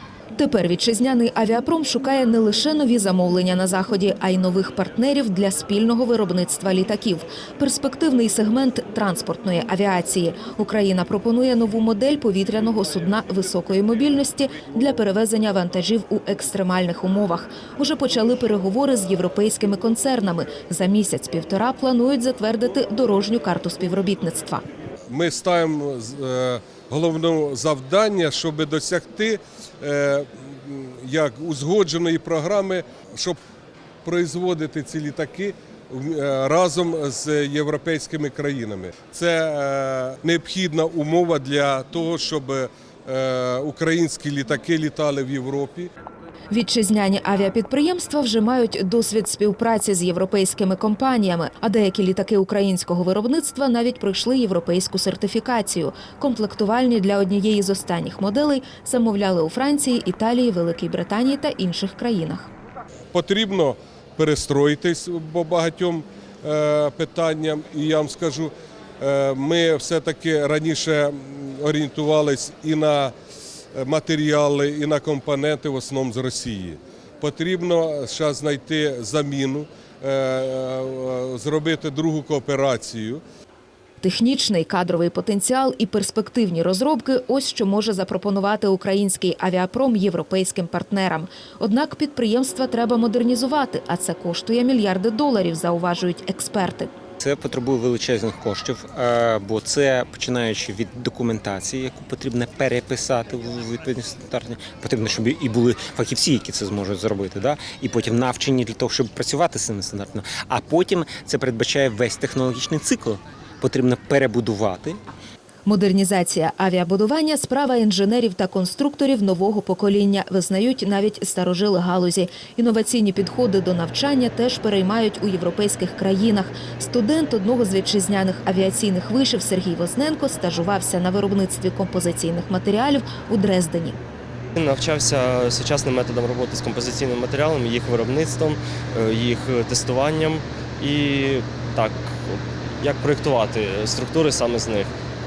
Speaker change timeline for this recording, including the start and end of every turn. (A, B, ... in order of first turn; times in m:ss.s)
0:00.4-0:24.6 A
0:25.1-0:33.4 B
0:34.0-0:45.9 B
0:46.5-1:02.5 A
1:03.1-1:13.1 B
1:13.7-1:23.2 B
1:24.0-1:36.9 A
1:37.2-1:55.0 C
1:55.6-2:14.0 A
2:14.6-2:24.9 D